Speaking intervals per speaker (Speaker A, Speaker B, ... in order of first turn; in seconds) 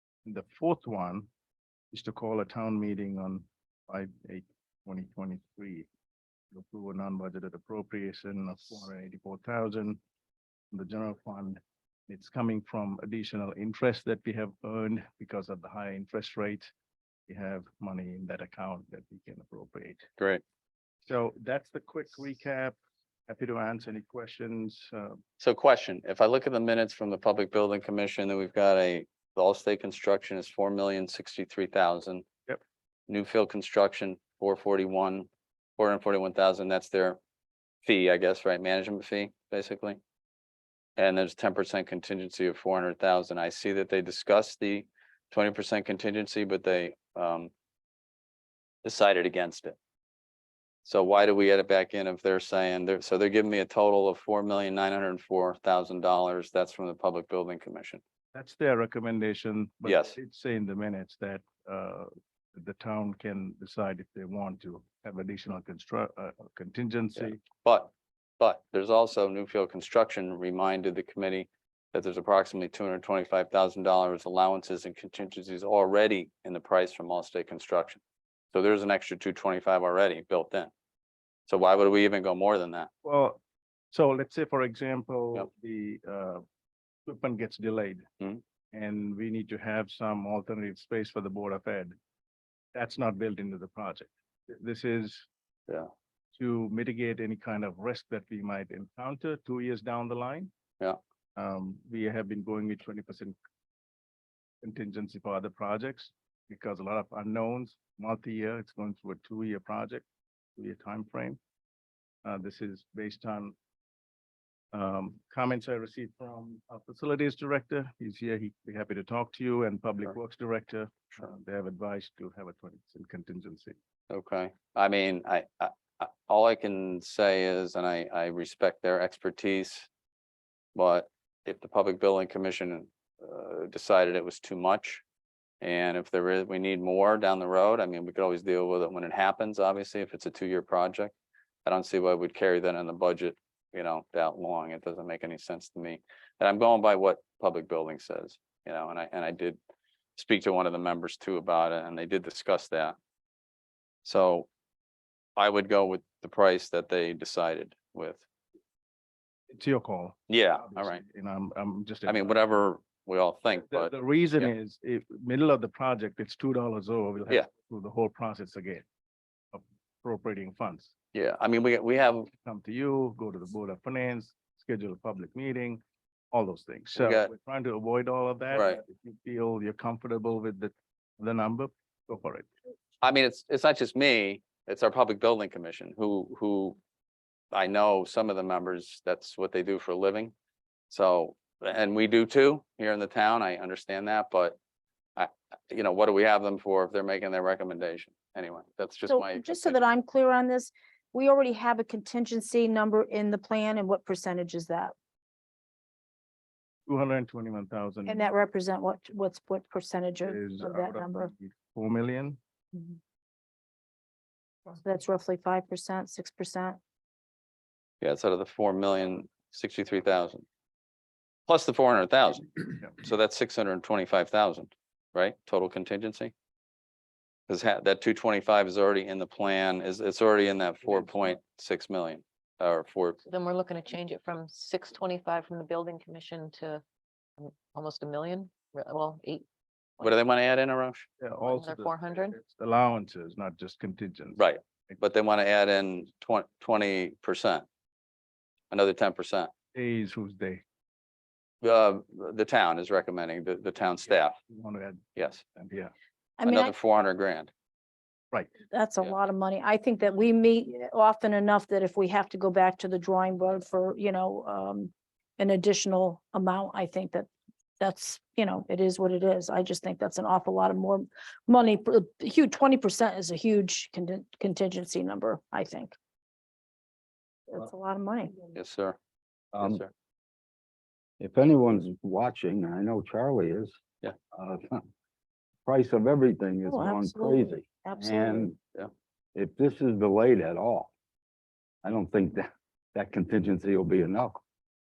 Speaker A: 0.2-1.3, 1.9-5.9, 6.5-10.0, 10.7-16.7, 17.3-20.1, 21.1-22.8, 23.3-25.2, 58.3-67.4, 83.0-83.4, 83.9-86.4, 87.0-88.1, 88.7-91.9, 92.7-95.3, 96.3-100.5, 101.3-103.3, 104.6-110.0, 110.5-111.4, 112.2-113.5, 114.7-123.8, 159.5-162.3, 163.7-168.8, 169.5-170.9, 172.3-182.5, 206.9-208.3, 210.3-212.4, 241.2-245.0, 249.7-250.6, 254.5-255.9
Speaker B: 25.4-32.2, 33.1-37.2, 37.8-40.0, 41.0-47.5, 48.8-49.8, 50.8-58.0, 59.8-60.1, 67.2-78.0, 78.5-80.7, 81.5-82.9, 124.1-129.9, 130.7-135.0, 135.6-141.1, 141.7-149.6, 150.2-152.9, 154.0-154.5, 155.4-158.2, 160.3-161.0, 162.1-164.5, 171.1-172.3, 176.9-177.3, 178.5-178.8, 183.0-186.8, 187.5-190.3, 190.9-194.6, 195.2-199.8, 218.0-220.4, 221.5-226.3, 227.5-233.2, 240.0-241.1, 244.4-247.6, 248.7-249.5, 251.6-254.3, 255.2-255.4, 256.4-257.5, 278.5-279.0, 279.6-279.9
Speaker C: 199.1-204.9, 208.1-211.3, 214.8-216.8, 256.4-256.7, 258.7-267.3, 267.8-275.9, 277.5-278.4, 286.6-288.5
Speaker D: 233.2-236.8, 237.4-239.4, 241.4-242.3
Speaker E: 279.5-279.8, 281.2-283.8, 284.3-284.8, 285.6-288.6, 289.3-290.9, 291.8-294.4